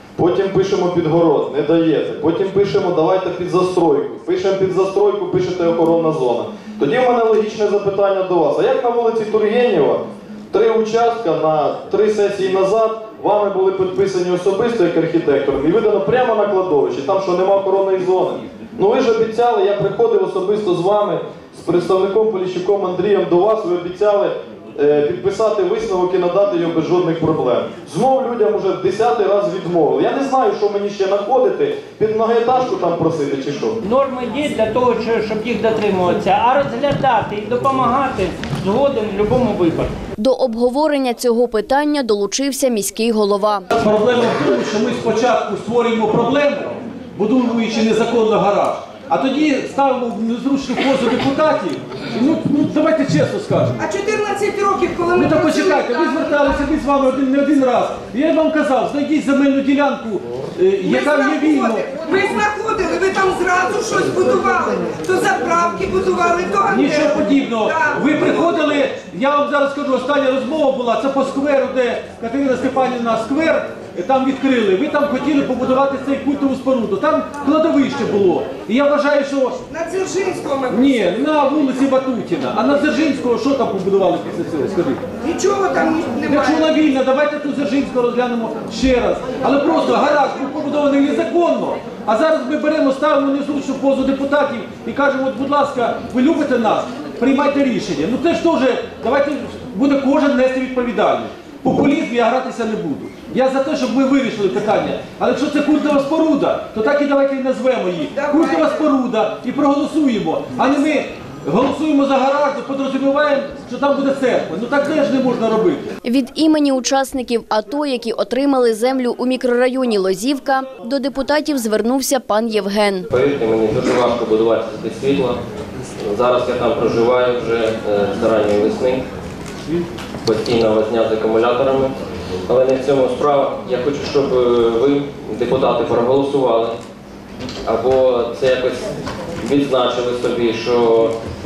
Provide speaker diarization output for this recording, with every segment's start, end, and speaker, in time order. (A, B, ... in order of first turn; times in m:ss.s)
0:00.2-0:33.8 A
0:33.8-0:39.9 B
0:40.2-0:43.7 C
0:43.7-0:53.8 D
0:53.8-0:56.7 E
0:55.1-1:01.9 D
1:00.8-1:08.4 E
1:06.7-1:19.6 D
1:19.7-1:21.0 E
1:20.7-1:25.0 D
1:25.2-1:26.7 E
1:26.3-1:55.9 D
1:29.7-1:30.0 E
1:48.1-1:48.8 E
1:56.0-2:03.1 C
2:03.1-2:05.4 F
2:06.0-2:09.0 F
2:10.2-2:11.9 F
2:12.5-2:16.7 F
2:17.7-2:18.9 F
2:19.4-2:21.1 F